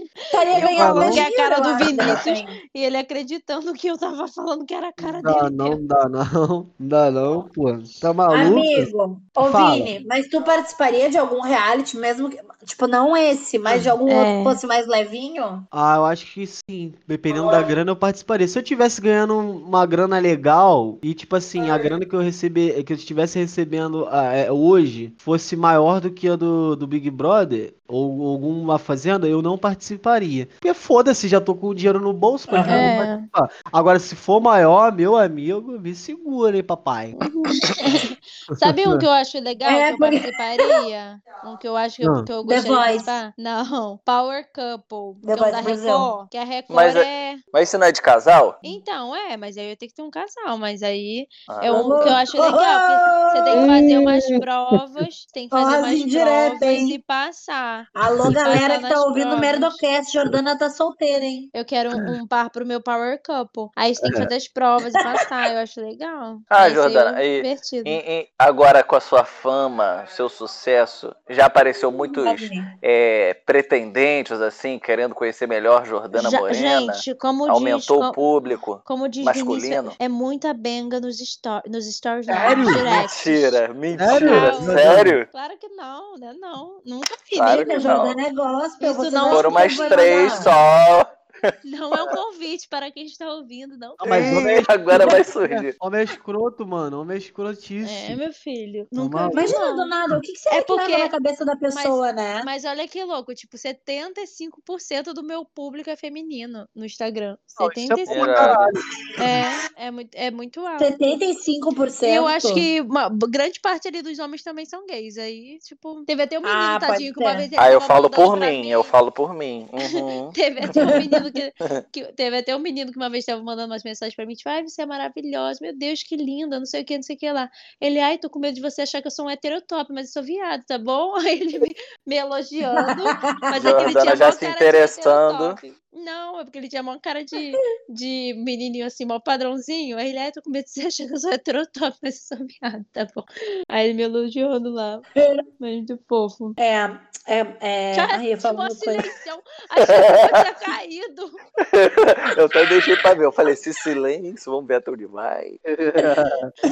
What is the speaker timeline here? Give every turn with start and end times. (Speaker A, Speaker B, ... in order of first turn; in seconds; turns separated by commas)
Speaker A: 0.3-2.6, Speaker B: 0.3-5.8, Speaker C: 0.6-1.3, Speaker C: 5.0-9.9, Speaker A: 8.3-15.7, Speaker C: 13.7-13.9, Speaker B: 14.1-14.6, Speaker C: 15.7-37.2, Speaker A: 32.5-32.9, Speaker B: 32.7-33.3, Speaker B: 37.1-47.4, Speaker C: 38.5-39.0, Speaker A: 39.6-40.8, Speaker C: 42.0-42.3, Speaker A: 42.4-43.2, Speaker A: 45.2-46.1, Speaker D: 46.7-48.6, Speaker B: 48.6-59.8, Speaker D: 51.5-52.1, Speaker A: 51.7-54.0, Speaker C: 53.6-54.2, Speaker A: 55.5-57.0, Speaker A: 58.0-61.5, Speaker B: 61.5-68.0, Speaker C: 64.0-64.3, Speaker D: 66.5-80.0, Speaker A: 72.0-72.7, Speaker B: 76.1-78.2, Speaker B: 78.8-88.0, Speaker C: 82.3-82.9, Speaker A: 82.3-82.9, Speaker D: 82.9-85.3, Speaker C: 84.0-85.2, Speaker D: 87.3-88.2, Speaker A: 87.4-90.5, Speaker B: 88.8-90.5, Speaker D: 89.3-92.2, Speaker B: 91.6-94.4, Speaker C: 94.0-98.2, Speaker D: 94.0-95.7, Speaker B: 97.8-99.9, Speaker C: 99.0-99.6, Speaker A: 99.3-102.5, Speaker B: 100.5-101.1, Speaker B: 101.7-108.6, Speaker C: 107.6-108.8, Speaker D: 108.1-108.7, Speaker B: 109.2-111.2, Speaker A: 110.8-112.7, Speaker B: 112.0-118.9, Speaker A: 116.4-117.5, Speaker D: 117.6-120.3, Speaker B: 120.3-145.1, Speaker A: 120.7-121.2, Speaker A: 132.7-133.8, Speaker D: 133.6-135.6, Speaker A: 145.2-145.4, Speaker B: 145.6-146.6, Speaker A: 146.6-149.1, Speaker B: 147.9-151.4, Speaker D: 149.8-150.4, Speaker D: 151.6-155.6, Speaker C: 155.7-156.5